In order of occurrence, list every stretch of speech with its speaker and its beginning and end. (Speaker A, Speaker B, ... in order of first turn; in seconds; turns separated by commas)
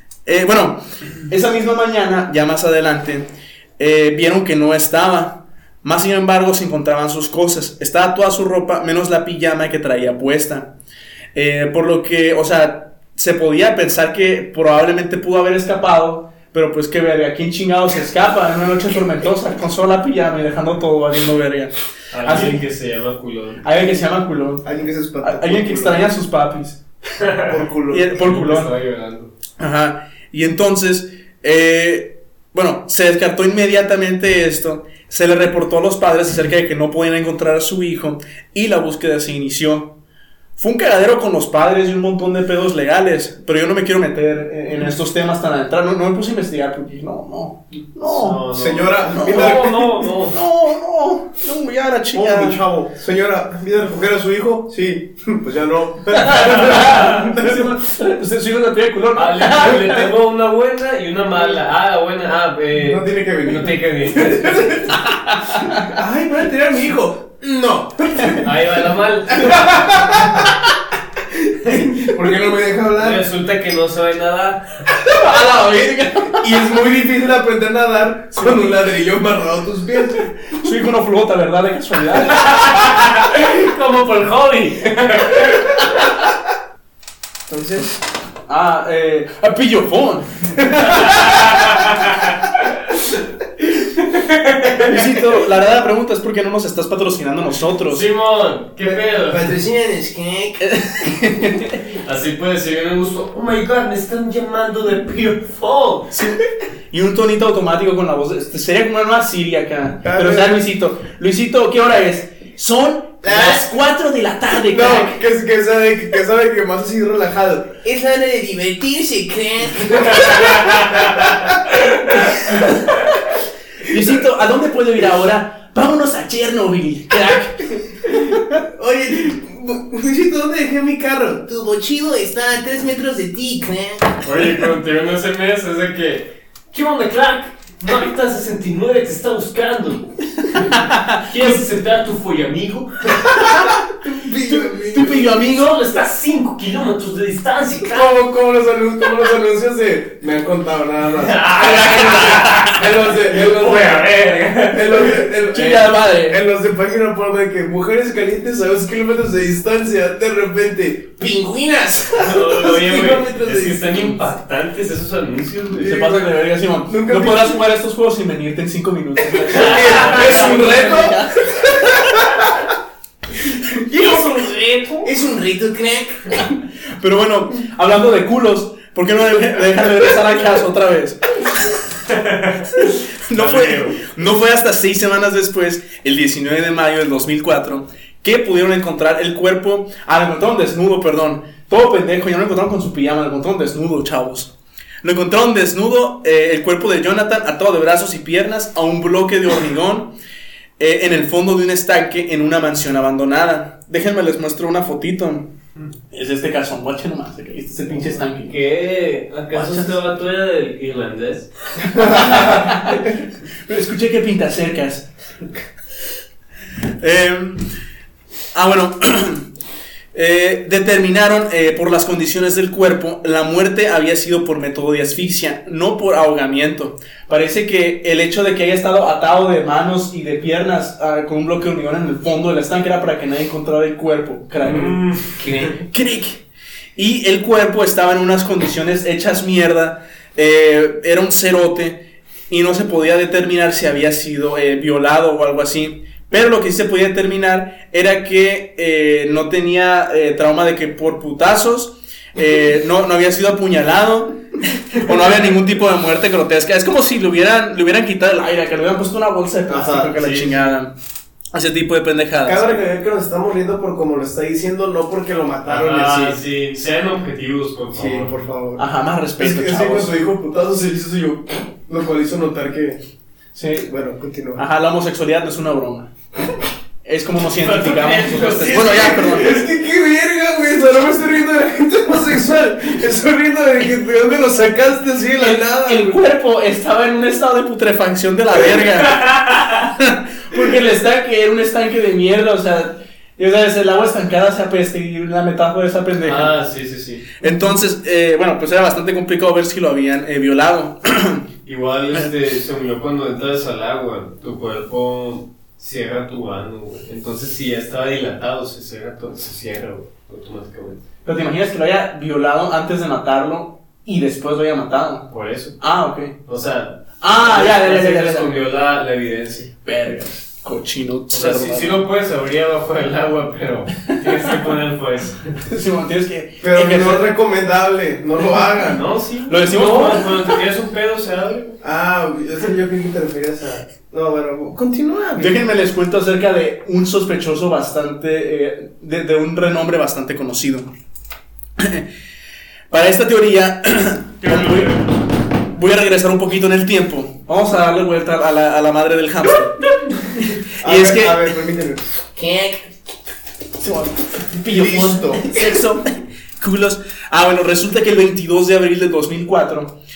Speaker A: 0.2-10.7, Speaker A: 11.3-22.6, Speaker B: 22.1-23.6, Speaker A: 23.6-24.6, Speaker C: 24.6-26.0, Speaker A: 25.2-26.8, Speaker B: 27.2-27.5, Speaker C: 27.5-28.1, Speaker A: 27.9-28.7, Speaker B: 28.2-29.3, Speaker A: 29.6-40.0, Speaker A: 40.6-48.4, Speaker B: 48.0-50.4, Speaker C: 48.5-49.9, Speaker A: 49.1-52.6, Speaker C: 52.1-57.6, Speaker A: 56.1-60.1, Speaker B: 59.1-65.0, Speaker C: 62.7-65.0, Speaker A: 65.5-65.8, Speaker C: 65.8-68.5, Speaker B: 68.4-69.7, Speaker C: 69.3-70.6, Speaker C: 71.4-73.2, Speaker B: 73.0-74.6, Speaker A: 75.0-76.5, Speaker C: 76.2-80.3, Speaker A: 78.3-78.7, Speaker A: 80.6-82.7, Speaker B: 82.3-86.1, Speaker C: 87.5-87.9, Speaker A: 88.5-91.6, Speaker B: 90.9-92.5, Speaker B: 94.0-94.9, Speaker A: 94.8-98.0, Speaker B: 97.9-99.5, Speaker C: 98.8-100.6, Speaker A: 100.6-101.8, Speaker B: 102.0-106.1, Speaker A: 106.1-115.2, Speaker C: 110.0-110.6, Speaker C: 113.2-113.6, Speaker C: 114.6-122.6, Speaker B: 120.0-121.3, Speaker A: 122.1-123.0, Speaker A: 123.8-128.6, Speaker C: 128.6-134.2, Speaker B: 134.2-140.0, Speaker A: 140.5-141.6, Speaker B: 140.5-143.5, Speaker C: 144.0-145.3, Speaker A: 144.5-145.8, Speaker B: 145.3-148.1, Speaker C: 147.9-164.1, Speaker B: 151.2-155.2, Speaker A: 151.6-152.7, Speaker A: 155.5-156.4, Speaker B: 162.1-165.9, Speaker C: 165.7-166.3, Speaker A: 165.8-172.1, Speaker C: 166.9-167.6, Speaker C: 169.4-172.5, Speaker B: 169.5-170.6, Speaker C: 173.8-176.5, Speaker A: 173.9-174.4, Speaker A: 177.0-181.7, Speaker B: 182.1-184.0, Speaker A: 182.8-200.1, Speaker A: 200.8-205.5, Speaker A: 206.1-208.5, Speaker B: 208.4-211.5, Speaker A: 209.5-209.9, Speaker A: 211.9-215.1, Speaker A: 217.0-217.7, Speaker A: 218.5-219.5, Speaker A: 220.1-235.0, Speaker B: 234.6-235.4, Speaker C: 235.4-235.8, Speaker A: 235.7-236.4, Speaker A: 236.9-260.9, Speaker C: 259.7-260.2, Speaker B: 260.2-260.7, Speaker A: 261.5-262.8, Speaker C: 262.4-266.4, Speaker B: 265.7-268.3, Speaker C: 267.9-268.8, Speaker A: 268.8-270.1, Speaker C: 269.4-273.0, Speaker A: 273.5-273.9, Speaker C: 273.9-274.6, Speaker A: 274.6-276.1, Speaker A: 277.0-279.5, Speaker B: 277.6-279.4, Speaker C: 278.7-286.2, Speaker A: 285.4-296.5, Speaker B: 289.1-289.8, Speaker B: 296.2-297.3, Speaker A: 297.4-301.4, Speaker B: 301.6-311.0, Speaker A: 311.2-315.3, Speaker B: 315.3-315.8, Speaker A: 315.8-316.3, Speaker B: 316.4-319.7, Speaker A: 317.2-318.6, Speaker A: 319.8-322.0, Speaker B: 321.3-325.6, Speaker A: 325.6-327.3, Speaker C: 326.6-329.0, Speaker B: 328.8-331.8, Speaker A: 329.5-330.4, Speaker C: 331.8-335.6, Speaker A: 335.4-340.9, Speaker A: 341.8-342.1, Speaker A: 342.9-344.9, Speaker B: 344.4-345.1, Speaker A: 345.7-351.4, Speaker C: 350.8-352.9, Speaker A: 353.8-359.9, Speaker C: 354.6-355.6